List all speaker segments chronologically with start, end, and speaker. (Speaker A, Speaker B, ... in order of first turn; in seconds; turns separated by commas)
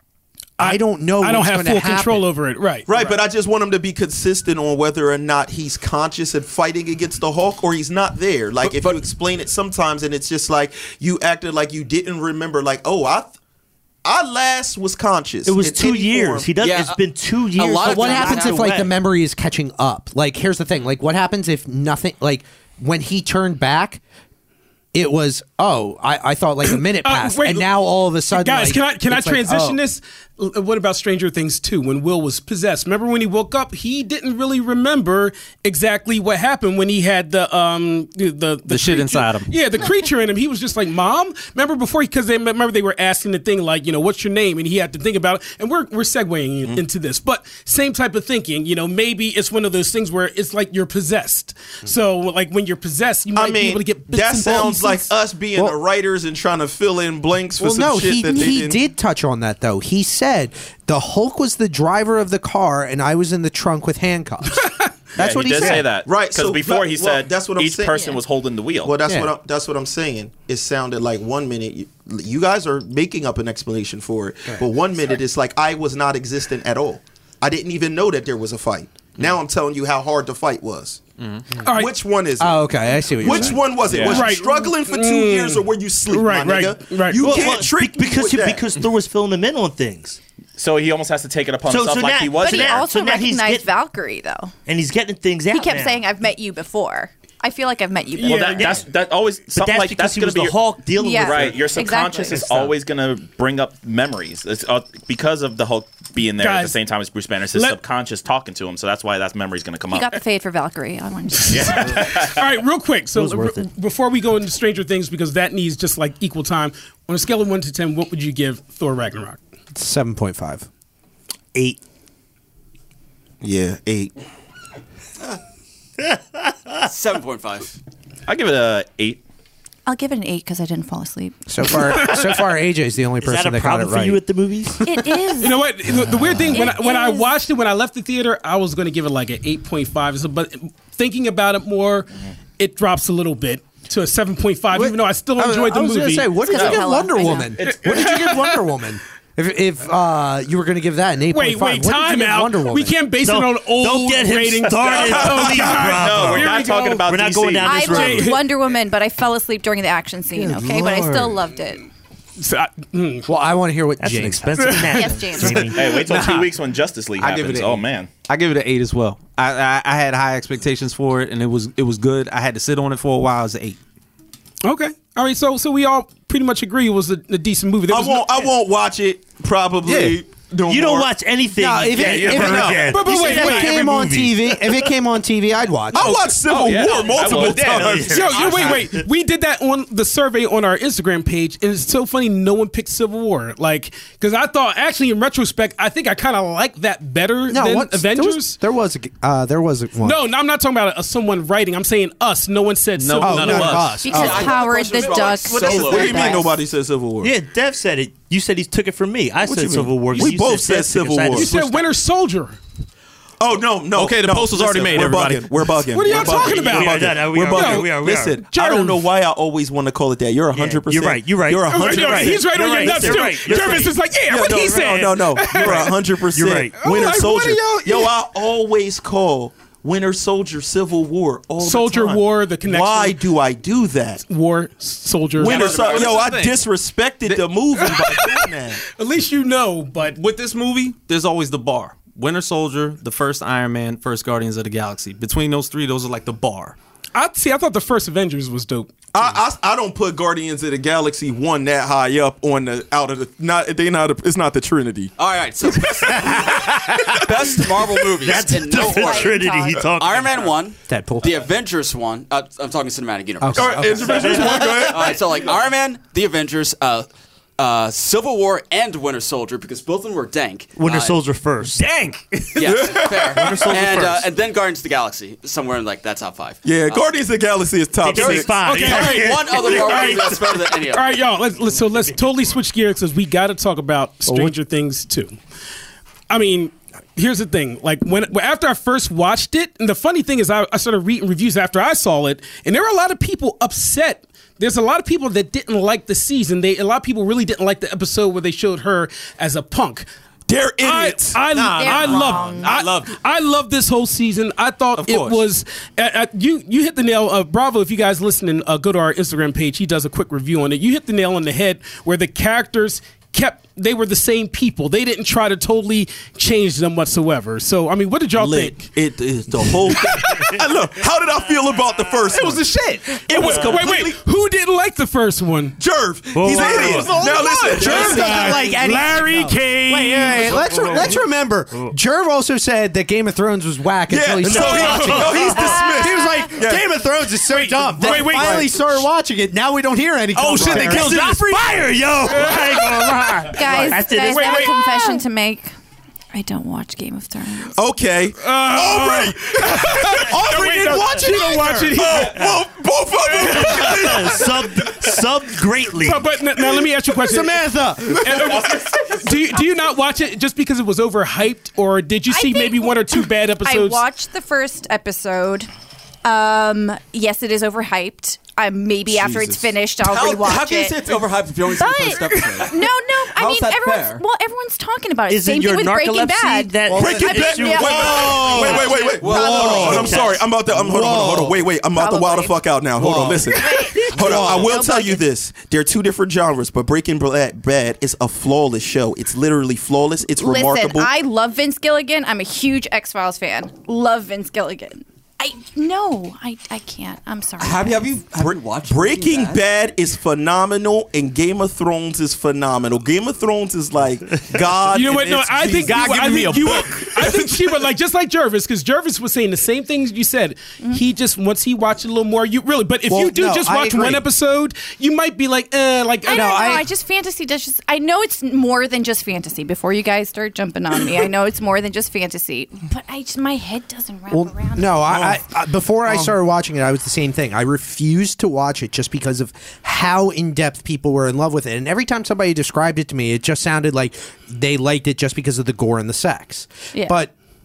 Speaker A: 0.6-2.2, Speaker B: 0.6-2.9, Speaker C: 2.9-13.3, Speaker D: 8.7-9.0, Speaker C: 14.0-16.5, Speaker E: 15.4-18.9, Speaker D: 16.6-17.0, Speaker D: 17.5-18.7, Speaker A: 17.8-24.0, Speaker A: 24.9-29.8, Speaker B: 26.7-27.7, Speaker B: 28.3-55.1, Speaker F: 38.7-39.5, Speaker C: 53.3-58.8, Speaker A: 57.6-65.9, Speaker G: 65.2-68.9, Speaker C: 66.0-68.1, Speaker H: 67.9-68.2, Speaker C: 68.8-81.0, Speaker F: 81.2-81.4, Speaker B: 81.6-81.9, Speaker C: 81.6-88.6, Speaker A: 82.4-83.7, Speaker G: 83.9-84.3, Speaker B: 84.0-87.2, Speaker E: 87.2-90.2, Speaker G: 90.6-92.8, Speaker E: 91.7-93.7, Speaker H: 92.3-94.5, Speaker E: 94.7-96.0, Speaker H: 95.5-98.8, Speaker B: 98.1-98.8, Speaker G: 98.2-100.6, Speaker E: 98.6-98.8, Speaker E: 99.5-101.7, Speaker H: 101.0-102.5, Speaker G: 101.1-110.2, Speaker E: 102.3-102.7, Speaker B: 106.4-106.8, Speaker H: 109.9-112.0, Speaker B: 111.4-119.4, Speaker G: 111.5-112.4, Speaker E: 113.1-113.7, Speaker A: 119.7-120.7, Speaker E: 121.5-121.8, Speaker C: 123.4-124.1, Speaker E: 126.0-126.8, Speaker D: 126.9-127.8, Speaker G: 128.3-129.2, Speaker H: 129.8-131.4, Speaker A: 131.5-134.2, Speaker E: 133.2-134.8, Speaker H: 134.8-135.8, Speaker B: 135.4-142.1, Speaker H: 136.4-137.3, Speaker B: 142.6-146.3, Speaker A: 144.7-153.0, Speaker H: 146.3-147.6, Speaker G: 146.5-146.8, Speaker G: 147.3-148.2, Speaker B: 147.7-148.4, Speaker B: 151.3-157.0, Speaker E: 153.2-158.3, Speaker G: 154.8-158.1, Speaker H: 157.6-161.8, Speaker B: 157.8-158.4, Speaker E: 160.3-161.4, Speaker B: 162.4-163.3, Speaker A: 163.2-164.8, Speaker E: 164.0-166.2, Speaker B: 164.6-165.0, Speaker H: 164.9-165.8, Speaker G: 165.7-168.1, Speaker F: 165.9-166.5, Speaker F: 167.2-173.8, Speaker B: 174.6-178.4, Speaker C: 177.9-181.1, Speaker F: 179.8-180.2, Speaker E: 180.7-184.4, Speaker A: 181.6-186.1, Speaker G: 182.1-182.8, Speaker F: 182.1-182.9, Speaker B: 182.9-183.9, Speaker C: 185.9-188.7, Speaker F: 185.9-188.8, Speaker G: 186.5-187.9, Speaker E: 187.8-189.1, Speaker B: 188.1-198.6, Speaker A: 197.5-200.2, Speaker B: 200.0-203.8, Speaker F: 203.0-204.0, Speaker A: 203.2-204.5, Speaker H: 204.0-206.5, Speaker D: 204.0-206.4, Speaker C: 204.1-207.3, Speaker E: 207.2-211.6, Speaker C: 209.4-211.8, Speaker B: 211.3-212.6, Speaker C: 213.4-234.2, Speaker F: 213.9-216.1, Speaker B: 215.9-217.9, Speaker E: 216.1-218.4, Speaker B: 218.4-219.0, Speaker E: 220.5-226.8, Speaker B: 221.7-226.0, Speaker B: 226.8-228.1, Speaker B: 231.6-233.2, Speaker B: 234.3-235.8, Speaker C: 235.4-238.8, Speaker F: 235.4-236.6, Speaker B: 237.8-240.2, Speaker F: 240.2-246.8, Speaker B: 247.1-248.9, Speaker C: 249.1-255.1, Speaker D: 255.2-271.2, Speaker C: 255.7-258.1, Speaker E: 256.1-257.3, Speaker E: 258.2-260.5, Speaker H: 258.6-259.9, Speaker A: 260.9-261.3, Speaker A: 263.4-264.7, Speaker C: 263.5-265.4, Speaker E: 264.1-265.0, Speaker E: 270.8-271.9, Speaker F: 271.8-272.9, Speaker D: 272.5-277.2, Speaker C: 272.6-273.7, Speaker E: 273.2-274.3, Speaker C: 276.6-278.5, Speaker E: 278.0-280.6, Speaker D: 278.1-281.1, Speaker B: 278.5-285.3, Speaker B: 286.3-300.1, Speaker C: 300.5-301.4, Speaker B: 300.8-318.8, Speaker F: 301.5-303.1, Speaker H: 301.7-302.8, Speaker F: 305.0-305.4, Speaker C: 318.4-322.7, Speaker B: 319.9-320.5, Speaker F: 322.3-323.0, Speaker B: 323.0-325.8, Speaker C: 323.2-324.2, Speaker E: 323.4-323.7, Speaker C: 325.8-328.6, Speaker E: 326.3-327.2, Speaker B: 326.5-330.6, Speaker F: 326.8-328.4, Speaker A: 327.6-341.2, Speaker E: 330.3-331.2, Speaker C: 334.1-336.9, Speaker E: 334.4-335.9, Speaker B: 334.8-335.2, Speaker H: 334.8-336.7, Speaker B: 337.5-338.7, Speaker C: 338.0-338.7, Speaker F: 340.3-341.9, Speaker E: 340.6-344.8, Speaker B: 342.3-343.6, Speaker H: 343.5-345.7, Speaker B: 344.2-345.2, Speaker H: 346.3-347.8, Speaker C: 347.8-350.6, Speaker B: 348.4-352.4, Speaker A: 350.2-352.0, Speaker C: 351.9-354.9, Speaker B: 353.4-354.4, Speaker E: 353.6-356.3, Speaker B: 356.0-364.0, Speaker A: 357.2-358.4, Speaker H: 362.3-365.7, Speaker H: 366.2-371.2, Speaker C: 369.1-369.7, Speaker D: 370.0-374.2, Speaker H: 371.7-379.3, Speaker E: 375.3-380.5, Speaker C: 376.9-391.1, Speaker D: 378.4-380.3, Speaker A: 379.2-380.1, Speaker A: 380.7-381.6, Speaker E: 381.0-381.3, Speaker H: 381.9-382.6, Speaker A: 383.0-383.4, Speaker H: 383.4-385.2, Speaker A: 384.1-384.7, Speaker H: 390.4-398.1, Speaker D: 397.6-399.6, Speaker C: 398.9-406.0, Speaker B: 404.9-416.6, Speaker F: 405.8-407.7, Speaker A: 413.1-414.2, Speaker H: 416.2-425.1, Speaker A: 416.3-416.9, Speaker A: 424.3-437.3